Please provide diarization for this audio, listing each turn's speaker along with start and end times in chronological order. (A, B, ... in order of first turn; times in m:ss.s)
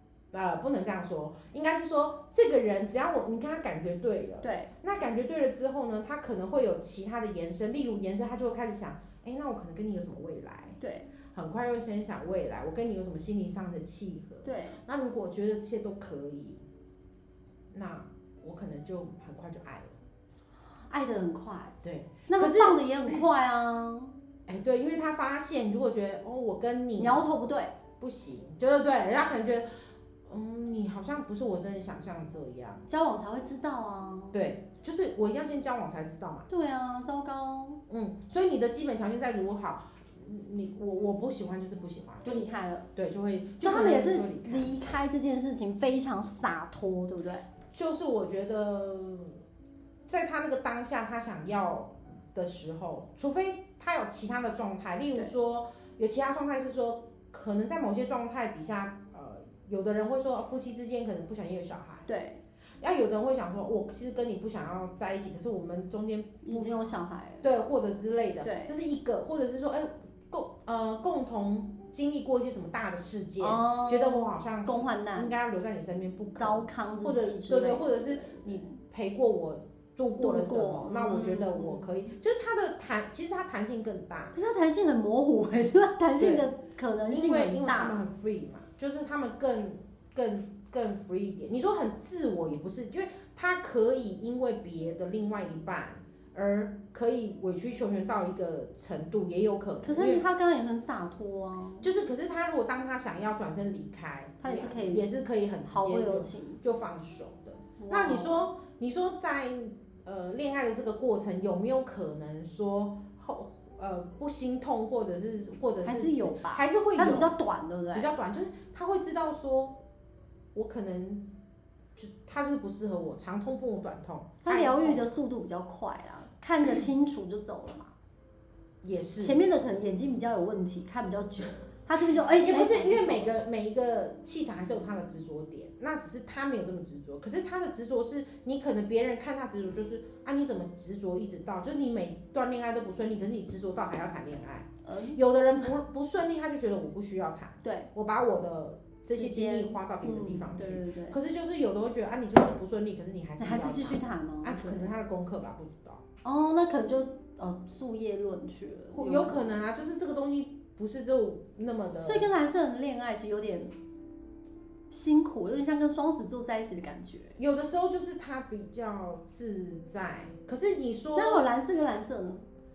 0:00.3-0:10.8 A
0:04.4-0:04.7 B
0:10.8-0:11.1 B
0:11.3-0:16.6 A
0:14.4-0:14.8 B
0:17.7-0:20.0 A
0:20.8-0:21.8 B
0:21.8-0:23.2 A
0:22.3-0:24.1 B
0:24.5-0:27.2 A
0:27.0-0:27.7 B
0:28.0-0:29.7 A
0:30.3-0:32.8 A
0:32.9-0:34.4 B
0:34.3-0:36.5 A
0:36.5-0:37.8 B
0:37.9-0:42.4 A
0:42.2-0:42.9 B
0:42.9-0:44.7 A
0:43.6-0:47.4 B
0:47.7-0:49.4 A
0:50.1-1:02.1 A
1:02.1-1:02.4 B
1:02.8-1:06.8 A
1:06.4-1:07.5 B
1:07.4-1:24.4 A
1:08.4-1:08.7 B
1:13.4-1:15.3 B
1:16.4-1:18.7 B
1:20.2-1:22.0 B
1:24.3-1:28.0 B
1:26.2-1:26.5 A
1:27.1-1:40.2 A
1:39.8-1:41.9 B
1:41.8-1:57.3 A
1:44.4-1:45.1 B
1:45.6-1:46.6 B
1:47.8-1:48.4 B
1:55.8-1:58.1 B
1:57.9-1:59.8 A
2:00.5-2:01.3 A
2:02.0-2:05.0 A
2:04.4-2:07.9 B
2:08.8-2:09.4 A
2:09.2-2:13.3 B
2:12.4-2:36.0 A
2:24.8-2:25.2 B
2:27.6-2:27.9 B
2:29.1-2:31.2 B
2:33.4-2:34.9 B
2:36.2-2:39.4 B
2:38.9-2:42.3 A
2:42.0-2:43.7 B
2:44.9-2:47.4 B
2:47.4-2:51.4 A
2:51.1-2:52.4 B